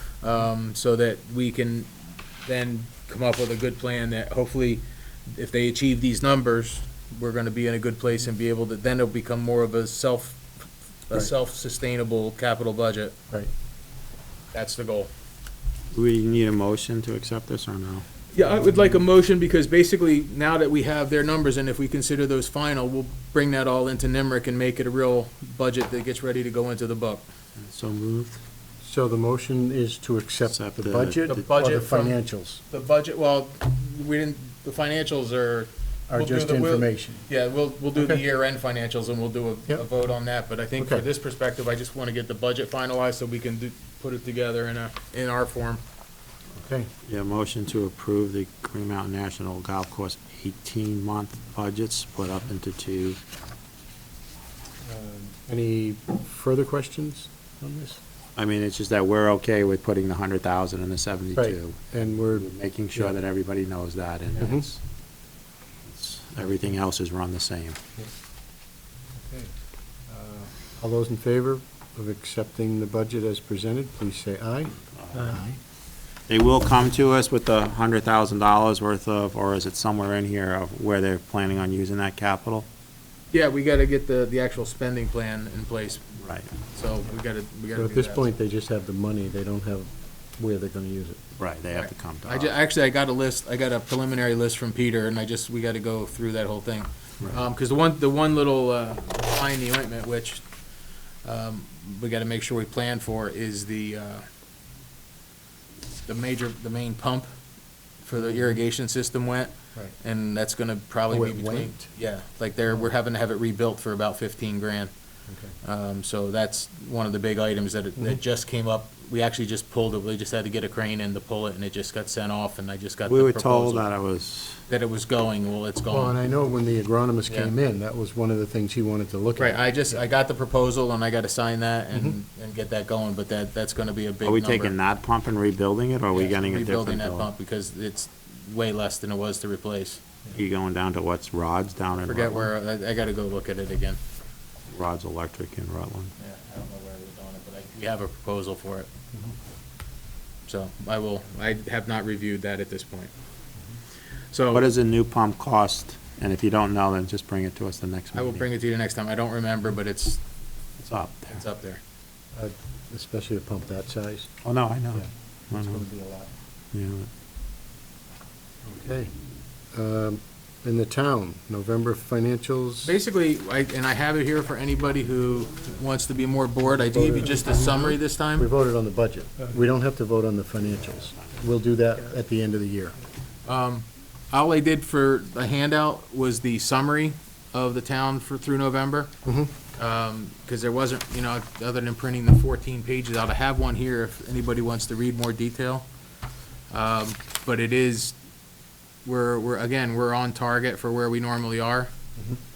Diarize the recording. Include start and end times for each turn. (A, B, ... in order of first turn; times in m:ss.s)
0:00.2-0:01.9 A
0:02.4-0:10.4 A
0:11.1-0:13.2 A
0:14.5-0:15.1 A
0:15.9-0:18.1 B
0:18.3-0:27.3 A
0:27.6-0:28.4 B
0:28.8-0:32.6 C
0:30.5-0:31.3 B
0:31.3-0:32.2 A
0:32.7-0:45.8 A
0:36.1-0:37.3 C
0:38.0-0:38.2 C
0:40.8-0:41.0 C
0:46.6-0:46.9 C
0:47.0-0:53.2 B
0:54.8-0:58.0 C
0:58.4-1:04.8 B
1:01.4-1:02.5 C
1:04.4-1:04.6 C
1:05.9-1:07.8 B
1:09.2-1:09.5 C
1:10.1-1:15.6 C
1:15.0-1:15.4 B
1:16.3-1:22.7 B
1:23.3-1:28.2 A
1:26.2-1:26.5 B
1:27.8-1:31.2 C
1:31.4-1:32.5 B
1:31.7-1:40.4 A
1:41.2-1:44.2 A
1:46.1-1:47.3 A
1:48.0-1:54.9 A
1:48.2-1:48.6 C
1:51.1-1:51.9 C
1:55.3-1:55.6 C
1:55.6-2:03.9 A
2:03.1-2:04.6 B
2:04.7-2:06.2 A
2:05.9-2:09.9 C
2:09.4-2:14.8 A
2:14.2-2:17.3 B
2:16.1-2:20.0 A
2:20.3-2:22.5 B
2:22.0-2:24.0 A
2:24.7-2:26.1 B
2:26.2-2:28.9 A
2:30.5-2:33.1 A
2:34.3-2:34.7 A
2:34.5-2:38.5 B
2:38.1-2:40.2 A
2:40.8-2:41.4 B
2:41.3-2:41.8 A
2:42.4-2:44.3 C
2:44.4-2:45.8 B
2:45.0-2:46.3 C
2:46.7-2:47.1 B
2:48.6-2:49.1 C
2:49.7-2:53.0 C
2:52.8-2:58.5 A
2:56.7-3:03.0 C
3:03.5-3:09.1 A
3:09.2-3:09.5 C
3:09.8-3:15.9 A
3:16.7-3:18.2 A
3:19.0-3:21.9 A